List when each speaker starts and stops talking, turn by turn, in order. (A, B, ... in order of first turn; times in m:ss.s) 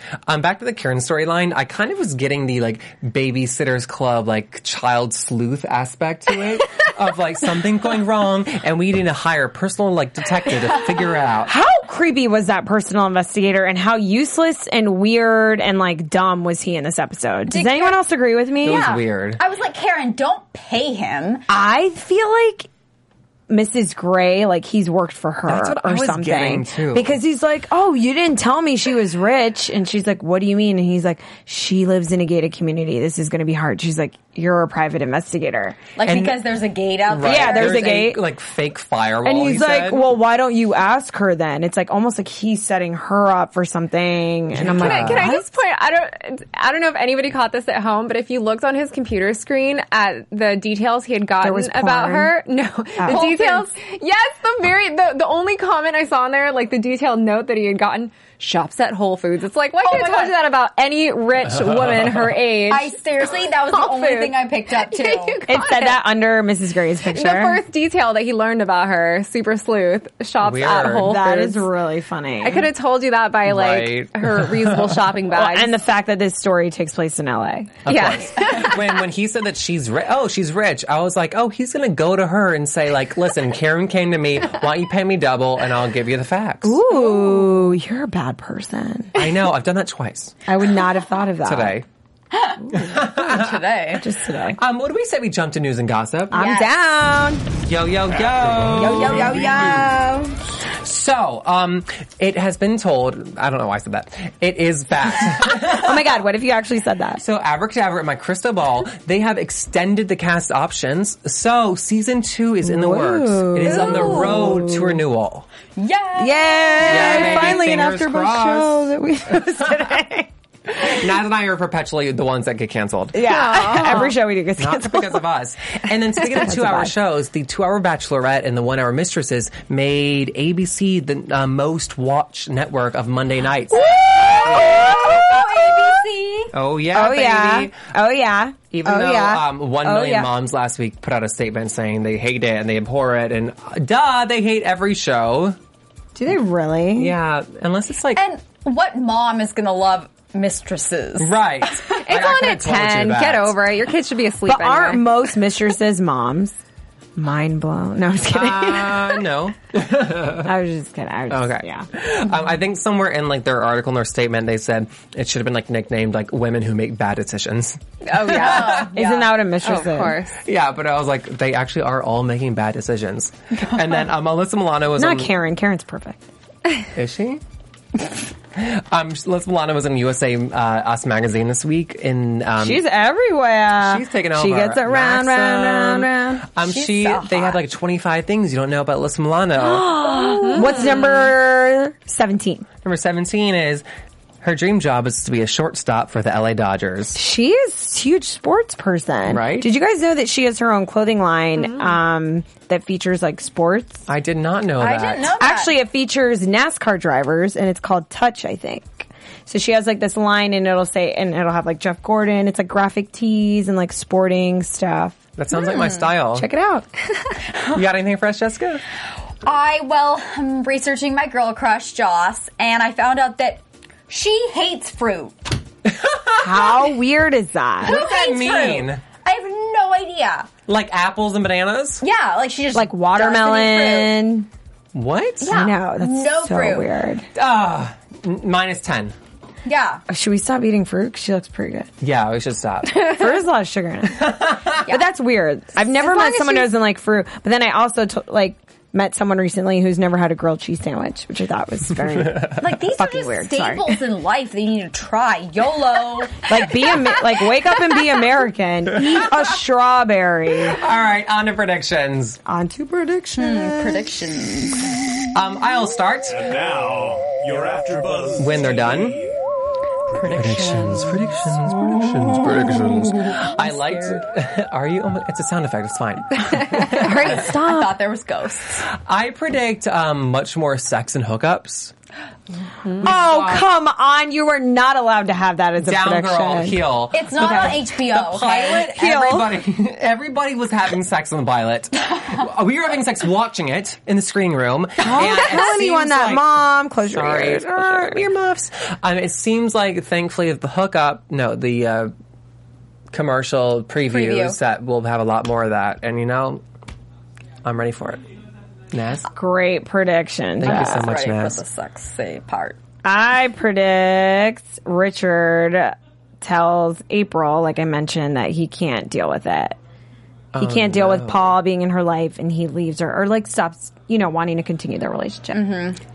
0:00.2-0:11.5 A
0:11.4-0:18.9 B
0:17.5-0:18.0 C
0:18.6-0:21.4 C
0:18.6-0:19.4 A
0:21.5-0:22.7 B
0:23.5-0:35.8 B
0:25.5-0:27.1 A
0:36.0-0:38.0 C
0:36.0-0:36.4 A
0:37.1-0:40.1 A
0:37.2-0:38.2 B
0:39.2-0:45.6 B
0:44.5-0:45.3 A
0:44.6-1:06.0 D
0:51.4-0:52.3 B
0:53.0-0:53.3 B
0:53.1-0:53.7 C
0:59.8-1:00.4 C
1:01.7-1:02.0 A
1:02.7-1:05.4 C
1:05.5-1:07.6 B
1:07.1-1:11.7 D
1:10.4-1:11.2 A
1:11.0-1:12.7 B
1:12.4-1:15.7 D
1:13.4-1:15.0 A
1:15.3-1:17.7 B
1:17.8-1:26.8 A
1:17.8-1:19.0 D
1:26.6-1:29.1 B
1:29.1-1:30.4 A
1:30.5-1:31.8 B
1:31.4-1:31.8 A
1:32.3-1:34.0 C
1:32.7-1:33.7 A
1:34.0-1:34.6 B
1:34.6-1:36.5 A
1:36.3-1:37.4 B
1:36.4-1:36.7 C
1:37.6-1:39.8 A
1:38.7-1:40.4 C
1:40.8-1:46.1 A
1:45.5-1:47.2 B
1:47.2-1:55.5 A
1:52.6-1:55.0 B
1:53.6-1:54.6 C
1:55.8-1:57.7 C
1:56.2-2:00.3 B
1:56.8-1:59.9 A
2:00.7-2:15.1 A
2:03.1-2:05.2 B
2:03.8-2:04.0 C
2:06.4-2:06.9 B
2:13.7-2:15.7 B
2:13.9-2:16.5 C
2:16.5-2:17.8 A
2:16.9-2:20.3 B
2:18.7-2:25.6 A
2:26.1-2:27.1 B
2:26.9-2:28.2 A
2:28.1-2:31.3 C
2:31.2-2:33.6 A
2:31.9-2:35.0 D
2:34.4-2:36.6 B
2:37.2-2:39.2 B
2:38.3-2:40.5 A
2:40.4-2:41.9 B
2:41.3-2:48.9 A
2:48.0-2:48.9 D
2:48.3-2:49.3 C
2:48.7-2:50.2 B
2:49.6-2:50.4 D
2:50.4-2:55.3 A
2:55.0-2:56.2 B
2:56.9-2:57.4 A
2:58.5-3:02.8 A
3:02.6-3:06.5 B
3:03.8-3:10.3 A
3:06.6-3:07.6 C
3:09.6-3:12.6 B
3:10.4-3:10.8 D
3:12.8-3:13.8 A
3:14.4-3:17.2 A
3:17.2-3:24.0 B
3:19.3-3:19.7 A
3:24.1-3:25.3 A
3:24.8-3:25.7 C
3:25.4-3:35.2 B
3:35.4-3:36.5 A
3:35.7-3:36.0 C
3:36.3-3:36.9 B
3:37.7-3:38.8 A
3:39.4-3:45.5 C
3:45.8-3:46.8 A
3:46.4-3:48.0 B
3:47.8-3:49.0 A
3:47.8-3:50.5 C
3:50.7-3:52.0 A
3:52.0-3:54.2 C
3:52.7-3:54.5 B
3:54.9-3:55.5 A
3:55.4-3:56.9 C
3:55.5-3:57.3 B
3:57.3-3:59.1 A
3:59.6-4:00.0 C
4:00.1-4:01.9 B
4:02.0-4:03.2 A
4:02.9-4:14.0 B
4:04.1-4:04.8 A
4:05.9-4:06.7 C
4:12.6-4:16.5 C
4:16.4-4:20.8 B
4:20.7-4:22.4 A
4:22.4-4:24.1 B
4:23.4-4:24.9 C
4:25.3-4:26.5 A
4:26.3-4:29.2 E
4:28.4-4:29.2 A
4:30.2-4:31.3 C
4:30.3-4:37.4 A
4:32.4-4:32.8 E
4:32.5-4:34.2 C
4:36.9-4:37.9 B
4:36.9-4:38.9 C
4:38.9-4:41.9 A
4:43.0-4:43.7 A
4:43.0-4:46.8 B
4:45.8-5:02.1 A
4:47.1-4:48.9 C
4:48.8-4:49.6 B
4:55.0-4:58.2 B
5:03.1-5:06.6 A
5:04.1-5:04.6 C
5:07.6-5:08.2 A
5:08.9-5:09.3 A
5:09.3-5:11.1 B
5:10.6-5:11.6 A
5:10.6-5:12.8 C
5:13.0-5:19.8 B
5:20.5-5:21.5 A
5:20.6-5:25.6 B
5:25.5-5:26.0 C